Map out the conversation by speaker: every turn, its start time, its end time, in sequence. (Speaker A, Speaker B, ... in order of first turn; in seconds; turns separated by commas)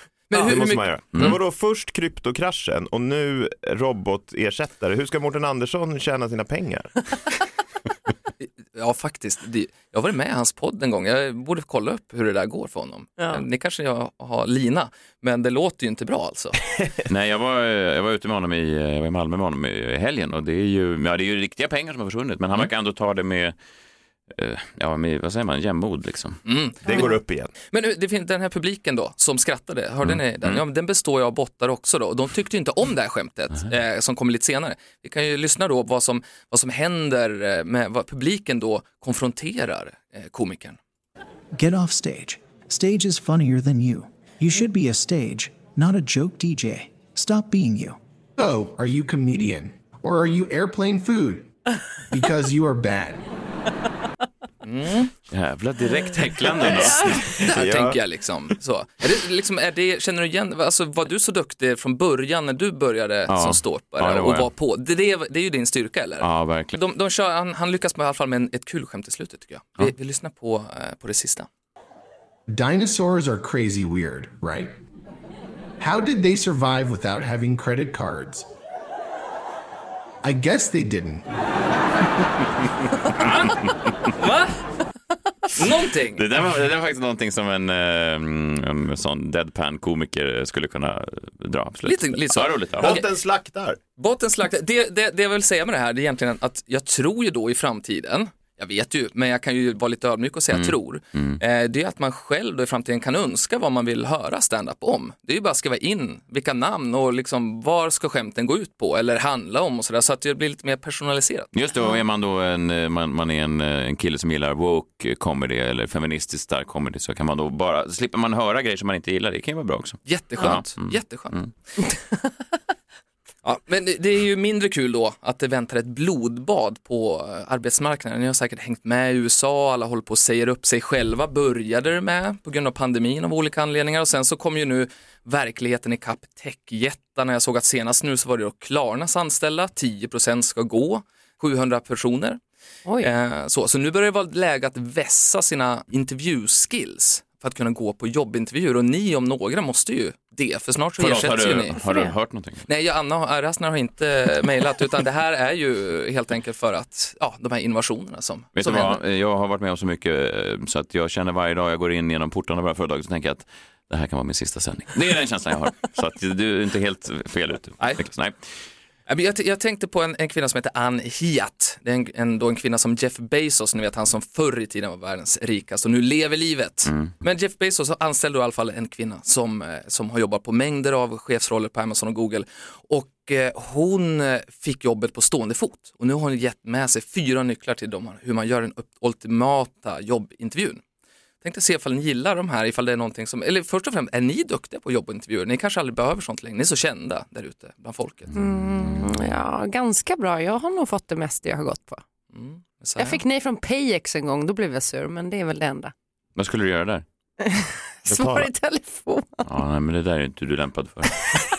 Speaker A: 0.3-1.4, Speaker B: 0.3-7.1, Speaker A: 8.4-16.6, Speaker C: 17.1-23.6, Speaker C: 24.3-26.4, Speaker A: 26.4-27.2, Speaker B: 26.8-27.5, Speaker A: 27.7-40.8, Speaker C: 30.1-30.6, Speaker D: 41.5-48.0, Speaker E: 48.4-51.5, Speaker E: 52.1-53.3, Speaker A: 54.6-55.1, Speaker C: 55.3-57.4, Speaker A: 56.6-71.5, Speaker F: 56.7-57.3, Speaker B: 57.4-58.0, Speaker C: 63.3-64.5, Speaker C: 66.2-66.8, Speaker E: 72.5-74.8, Speaker E: 75.8-78.5, Speaker E: 80.2-81.2, Speaker A: 83.2-84.6, Speaker A: 85.5-86.2, Speaker C: 86.1-93.0, Speaker A: 91.9-93.1, Speaker B: 92.8-93.8, Speaker A: 94.0-111.5, Speaker C: 100.5-101.4, Speaker C: 111.5-121.5, Speaker A: 120.1-121.5, Speaker A: 123.4-142.4, Speaker A: 143.0-151.8, Speaker C: 151.0-152.7, Speaker F: 151.8-152.1, Speaker A: 152.7-159.0, Speaker C: 158.6-168.4, Speaker A: 167.8-168.1, Speaker A: 169.1-190.8, Speaker C: 176.9-177.1, Speaker A: 191.4-198.3, Speaker F: 198.3-202.0, Speaker A: 202.3-203.2, Speaker F: 203.0-205.9, Speaker C: 206.4-207.0, Speaker F: 207.4-209.4, Speaker B: 208.1-208.5, Speaker C: 209.4-211.2